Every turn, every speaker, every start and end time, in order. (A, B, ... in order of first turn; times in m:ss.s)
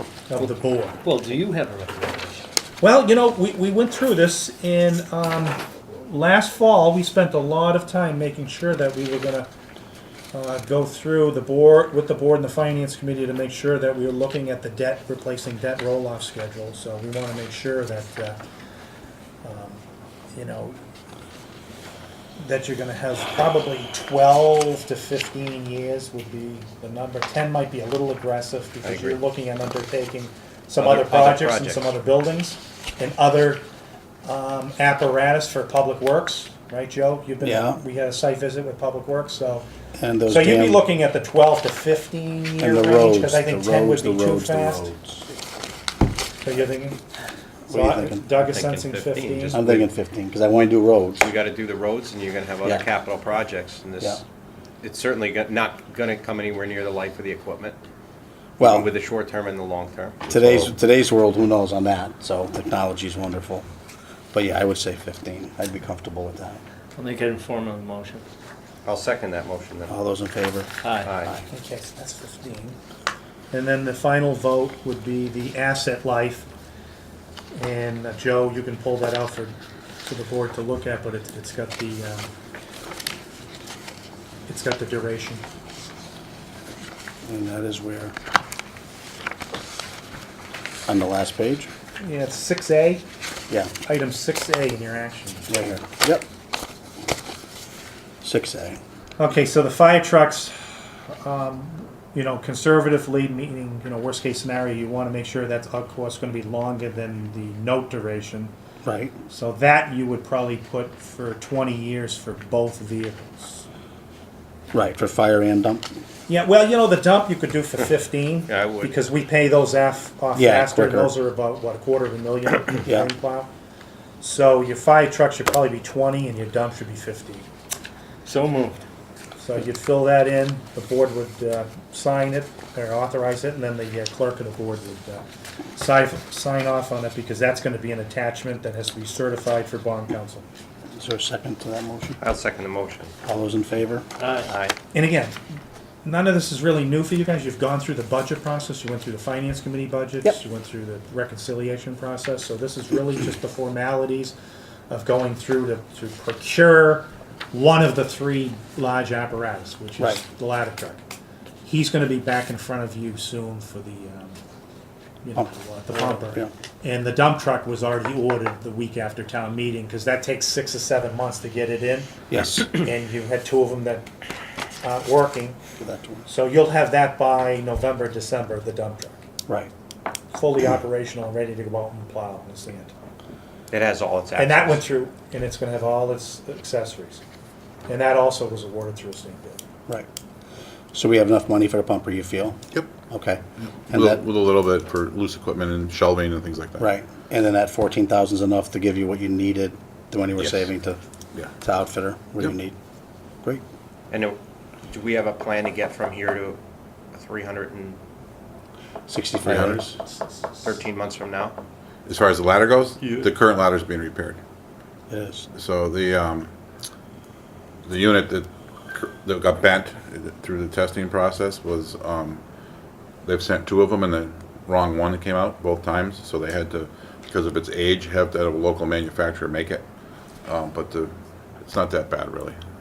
0:00.3-0:01.0 A
0:01.0-0:02.4 B
0:02.8-0:09.5 A
0:10.3-0:18.4 A
0:19.4-0:20.8 A
0:22.4-0:33.7 A
0:28.8-0:29.2 C
0:30.8-0:31.9 C
0:34.2-0:39.7 A
0:37.4-0:37.8 D
0:40.0-0:40.8 D
0:40.3-0:44.9 A
0:42.6-0:45.2 D
0:46.4-0:47.0 A
0:47.7-0:48.3 D
0:47.7-0:49.6 A
0:48.4-0:49.8 C
0:49.5-0:51.2 D
0:51.2-0:54.2 C
0:54.8-0:57.8 C
0:58.6-0:58.9 D
0:58.6-1:00.7 C
1:00.3-1:03.6 D
1:04.3-1:06.6 D
1:07.0-1:08.2 B
1:08.8-1:09.9 C
1:09.9-1:10.7 D
1:10.8-1:11.1 B
1:11.0-1:11.4 C
1:11.5-1:12.8 A
1:13.5-1:16.5 A
1:17.5-1:22.3 A
1:24.5-1:25.4 A
1:27.2-1:28.1 D
1:30.9-1:31.7 D
1:32.0-1:33.0 A
1:33.8-1:35.6 A
1:35.5-1:36.2 D
1:38.2-1:38.8 D
1:39.2-1:48.5 A
1:48.8-1:49.2 D
1:49.3-1:53.6 A
1:54.7-1:55.8 D
1:56.3-2:03.5 A
1:58.5-1:59.0 C
2:00.3-2:01.1 D
2:04.2-2:07.4 A
2:08.2-2:08.8 B
2:09.4-2:20.4 A
2:20.9-2:22.2 D
2:22.2-2:23.1 C
2:23.2-2:24.1 D
2:24.2-2:24.5 B
2:24.4-2:24.7 C
2:24.9-2:25.4 A
2:26.0-2:34.3 A
2:34.9-2:41.0 A
2:41.6-2:44.4 A
2:45.2-2:54.1 A
2:45.4-2:46.5 D
2:52.3-2:52.6 D
2:54.8-2:55.6 A
2:55.8-2:56.2 D
2:56.3-2:59.2 A
3:00.3-3:02.9 A
3:03.7-3:04.8 C
3:04.4-3:07.2 A
3:07.9-3:09.6 A
3:10.9-3:14.2 D
3:13.7-3:16.9 E
3:16.8-3:21.0 D
3:20.4-3:20.7 E
3:21.6-3:22.7 D
3:24.1-3:26.6 C
3:27.1-3:28.0 C
3:29.1-3:29.9 D
3:29.4-3:30.0 E
3:30.6-3:31.6 C
3:32.1-3:34.4 E
3:33.0-3:33.3 B
3:35.1-3:35.5 D
3:35.5-3:36.5 E
3:37.8-3:42.4 E
3:43.2-3:49.8 E
3:50.4-3:52.6 E